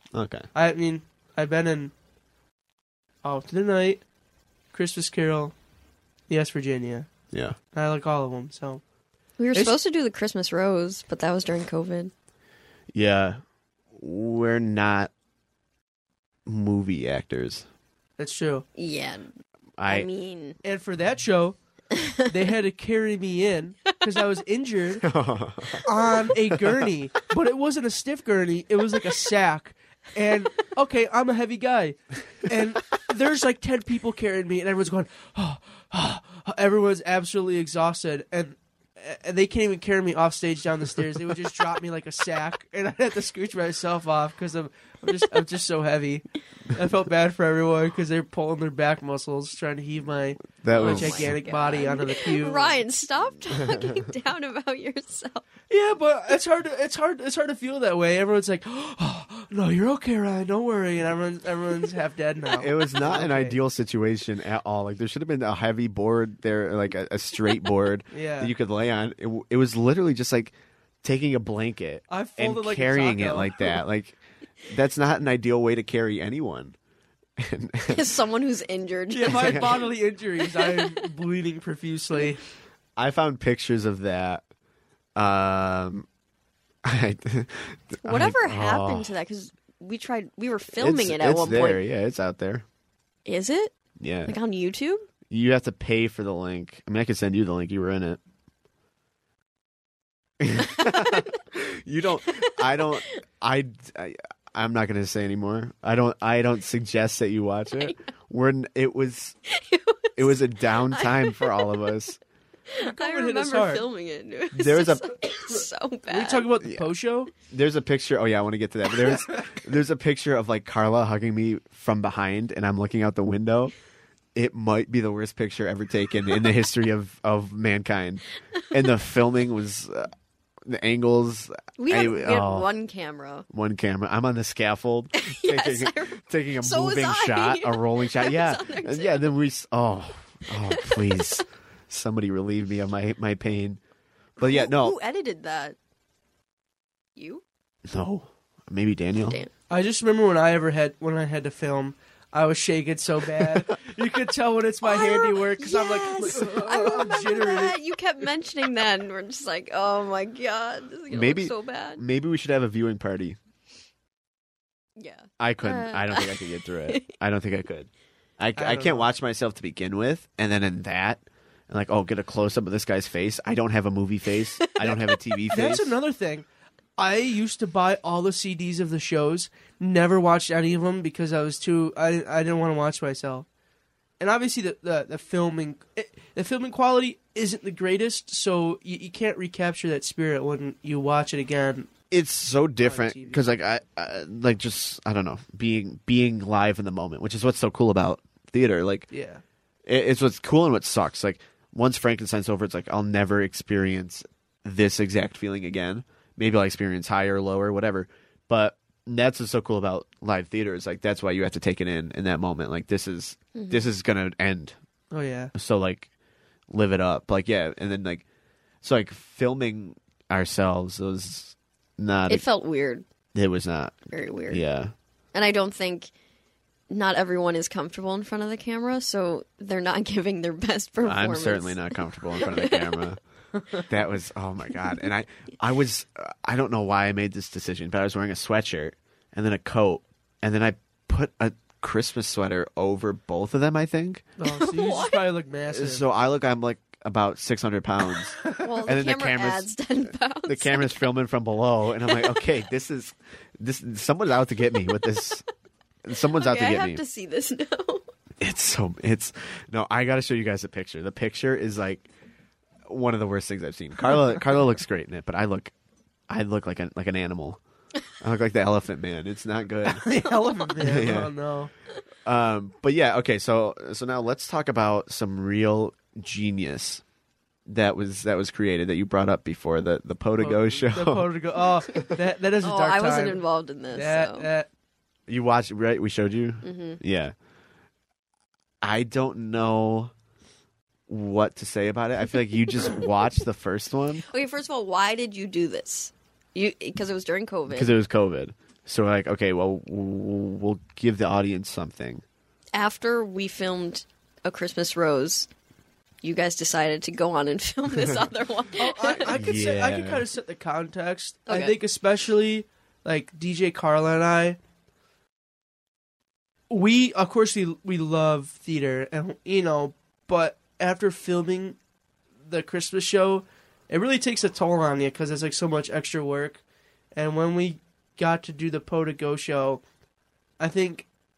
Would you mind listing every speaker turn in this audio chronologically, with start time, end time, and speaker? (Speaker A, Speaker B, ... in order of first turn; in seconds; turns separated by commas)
Speaker A: 0.1-0.5, Speaker B: 0.6-1.9, Speaker B: 3.2-4.0, Speaker B: 4.7-5.5, Speaker B: 6.3-7.1, Speaker A: 7.3-7.6, Speaker B: 7.7-8.8, Speaker C: 9.4-12.1, Speaker A: 12.9-13.4, Speaker A: 13.9-15.1, Speaker A: 16.5-17.7, Speaker B: 18.2-18.6, Speaker C: 18.8-19.3, Speaker A: 19.8-20.1, Speaker C: 19.9-20.6, Speaker B: 20.6-21.6, Speaker B: 22.2-25.1, Speaker A: 25.0-25.9, Speaker B: 25.8-52.8, Speaker A: 26.5-26.8, Speaker A: 50.6-51.3, Speaker C: 50.7-55.4, Speaker B: 55.7-63.6, Speaker A: 62.6-76.8, Speaker B: 68.1-68.5, Speaker B: 72.1-73.6, Speaker A: 77.4-78.1, Speaker C: 77.9-79.8, Speaker B: 79.1-82.4, Speaker A: 79.3-79.7, Speaker C: 80.6-81.0, Speaker A: 83.0-84.4, Speaker A: 85.2-86.1, Speaker A: 86.8-89.1, Speaker C: 88.0-91.8, Speaker A: 90.8-92.7, Speaker C: 93.3-95.1, Speaker A: 94.0-94.3, Speaker A: 95.3-98.2, Speaker A: 100.4-109.4, Speaker C: 109.5-111.8, Speaker A: 110.2-112.2, Speaker C: 112.7-116.5, Speaker B: 112.8-113.8, Speaker A: 114.5-115.1, Speaker B: 116.1-117.3, Speaker A: 117.5-123.7, Speaker A: 124.3-130.1, Speaker A: 130.6-132.7, Speaker C: 131.8-133.5, Speaker A: 133.5-143.8, Speaker C: 135.2-139.3, Speaker C: 140.5-141.4, Speaker A: 144.4-145.0, Speaker C: 144.4-145.8, Speaker C: 147.2-147.4, Speaker A: 147.9-149.4, Speaker B: 149.7-157.8, Speaker C: 154.8-162.0, Speaker A: 161.1-163.4, Speaker C: 165.0-167.1, Speaker A: 165.4-175.9, Speaker B: 168.6-169.1, Speaker C: 174.7-175.0, Speaker B: 175.5-183.5, Speaker B: 184.2-191.9, Speaker A: 192.1-199.1, Speaker B: 192.8-193.5, Speaker B: 199.1-199.4, Speaker A: 199.9-214.8, Speaker C: 213.6-213.9, Speaker B: 215.1-215.5, Speaker A: 215.5-216.1, Speaker A: 216.7-218.2, Speaker A: 218.8-222.4, Speaker C: 222.3-223.1, Speaker A: 223.3-224.9, Speaker C: 224.1-224.6, Speaker C: 225.3-226.1, Speaker C: 226.9-232.8, Speaker A: 231.0-233.2, Speaker A: 233.8-244.3, Speaker B: 244.4-246.0, Speaker C: 244.5-245.2, Speaker A: 245.7-249.7, Speaker C: 248.5-251.1, Speaker A: 250.5-255.4, Speaker A: 256.0-257.0, Speaker C: 256.2-258.1, Speaker A: 258.4-262.1, Speaker A: 262.9-265.7, Speaker A: 266.3-267.6, Speaker A: 268.2-270.1, Speaker B: 269.9-271.7, Speaker A: 270.8-271.3, Speaker A: 272.2-277.0, Speaker A: 277.7-281.3, Speaker B: 280.4-283.4, Speaker C: 282.6-284.5, Speaker B: 283.9-284.7, Speaker A: 285.3-287.3, Speaker C: 286.6-287.0, Speaker A: 288.8-290.1, Speaker A: 291.1-294.2, Speaker C: 294.3-297.9, Speaker A: 297.7-302.2, Speaker C: 302.7-305.5, Speaker C: 306.2-309.4, Speaker B: 308.8-314.6, Speaker A: 309.3-310.2, Speaker C: 311.5-311.7, Speaker B: 316.7-321.8, Speaker B: 322.5-326.6, Speaker B: 327.1-329.8, Speaker B: 330.6-331.1